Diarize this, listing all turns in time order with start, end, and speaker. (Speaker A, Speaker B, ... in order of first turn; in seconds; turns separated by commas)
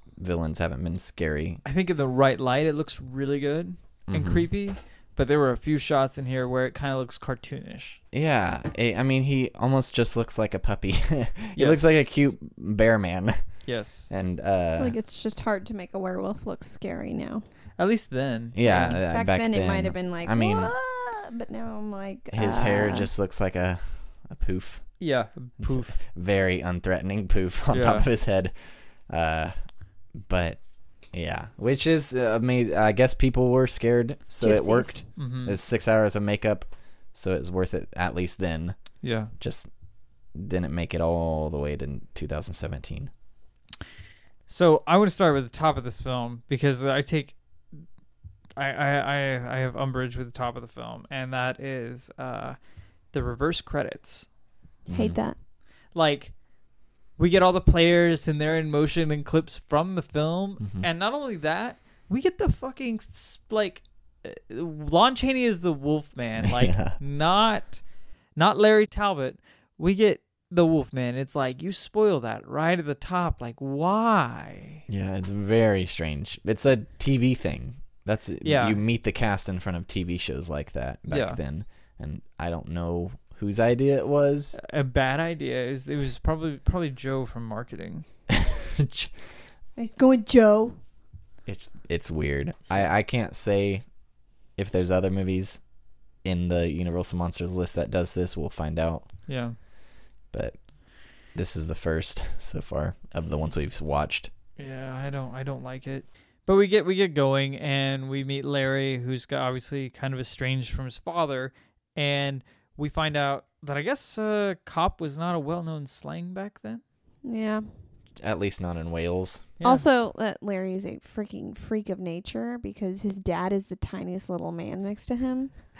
Speaker A: 0.2-1.6, Speaker B: 1.6-8.0, Speaker A: 4.1-4.4, Speaker A: 8.1-13.4, Speaker B: 11.5-12.3, Speaker B: 13.7-14.1, Speaker A: 14.1-14.9, Speaker C: 14.8-17.4, Speaker B: 17.8-19.0, Speaker A: 18.5-20.7, Speaker C: 18.6-23.1, Speaker A: 22.3-24.9, Speaker B: 25.0-26.0, Speaker A: 25.6-28.5, Speaker B: 27.7-28.1, Speaker A: 29.1-29.5, Speaker A: 30.1-30.6, Speaker A: 31.1-38.8, Speaker C: 34.4-35.0, Speaker B: 35.1-35.6, Speaker B: 39.0-39.3, Speaker A: 39.4-39.7, Speaker A: 40.3-43.1, Speaker B: 44.5-47.8, Speaker B: 48.6-52.6, Speaker B: 53.1-54.3, Speaker A: 54.9-55.2, Speaker C: 54.9-55.4, Speaker B: 55.9-56.3, Speaker B: 57.2-67.8, Speaker A: 60.6-60.9, Speaker A: 66.4-67.0, Speaker B: 68.3-74.8, Speaker A: 74.9-84.5, Speaker B: 78.4-78.8, Speaker B: 81.1-81.4, Speaker B: 84.5-88.0, Speaker A: 88.3-89.1, Speaker C: 89.8-90.8, Speaker A: 91.5-93.8, Speaker A: 94.5-95.6, Speaker A: 96.2-99.1, Speaker B: 99.3-99.5, Speaker A: 100.3-104.3, Speaker B: 104.6-116.8, Speaker C: 117.2-117.7, Speaker A: 118.2-119.5, Speaker B: 119.6-119.9, Speaker C: 119.6-125.5